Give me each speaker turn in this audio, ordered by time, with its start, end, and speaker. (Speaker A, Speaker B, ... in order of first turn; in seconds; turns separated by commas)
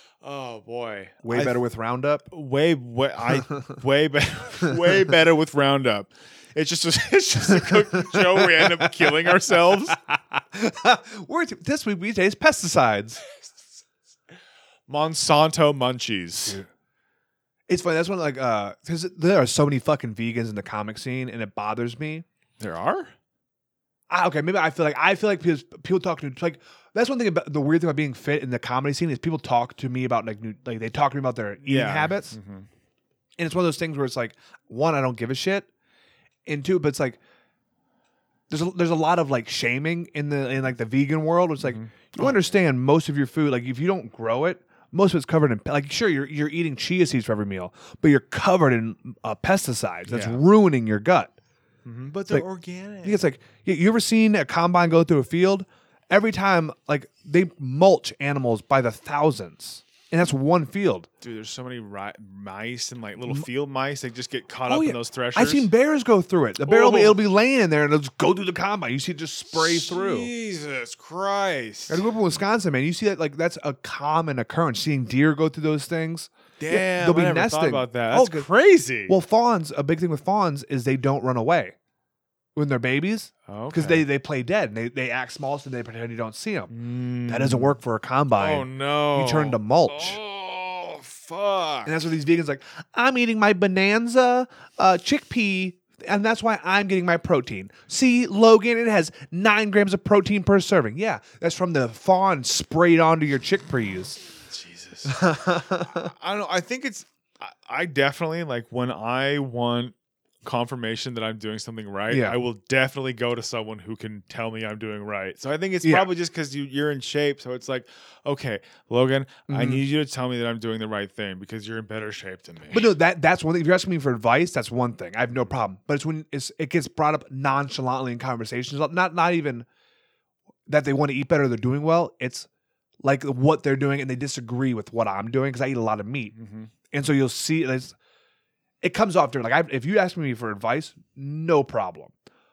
Speaker A: 0.2-1.6, Speaker B: 1.2-2.2, Speaker A: 2.3-10.0, Speaker B: 3.4-3.6, Speaker B: 7.5-13.2, Speaker A: 14.9-16.6, Speaker B: 17.7-22.2, Speaker A: 22.6-23.1, Speaker B: 24.1-32.4, Speaker A: 31.6-32.7, Speaker B: 33.4-35.7, Speaker B: 36.5-37.2, Speaker B: 38.5-51.3, Speaker A: 41.6-42.5, Speaker A: 50.1-50.4, Speaker A: 51.8-53.2, Speaker B: 53.0-61.1, Speaker A: 61.2-65.7, Speaker B: 64.7-70.3, Speaker A: 66.6-67.2, Speaker A: 69.5-72.0, Speaker B: 71.9-78.5, Speaker A: 76.6-79.2, Speaker B: 79.0-81.7, Speaker B: 82.5-86.7, Speaker A: 83.5-84.0, Speaker A: 86.7-87.7, Speaker B: 87.3-90.2, Speaker A: 88.3-91.9, Speaker B: 91.8-104.2, Speaker A: 104.5-105.2, Speaker B: 105.0-106.1, Speaker A: 105.8-122.9, Speaker B: 112.1-112.4, Speaker B: 115.8-116.1, Speaker B: 119.5-119.8, Speaker B: 122.7-129.7, Speaker B: 130.7-132.5, Speaker B: 133.0-136.3, Speaker A: 136.3-136.7, Speaker B: 136.9-137.9, Speaker B: 138.8-142.1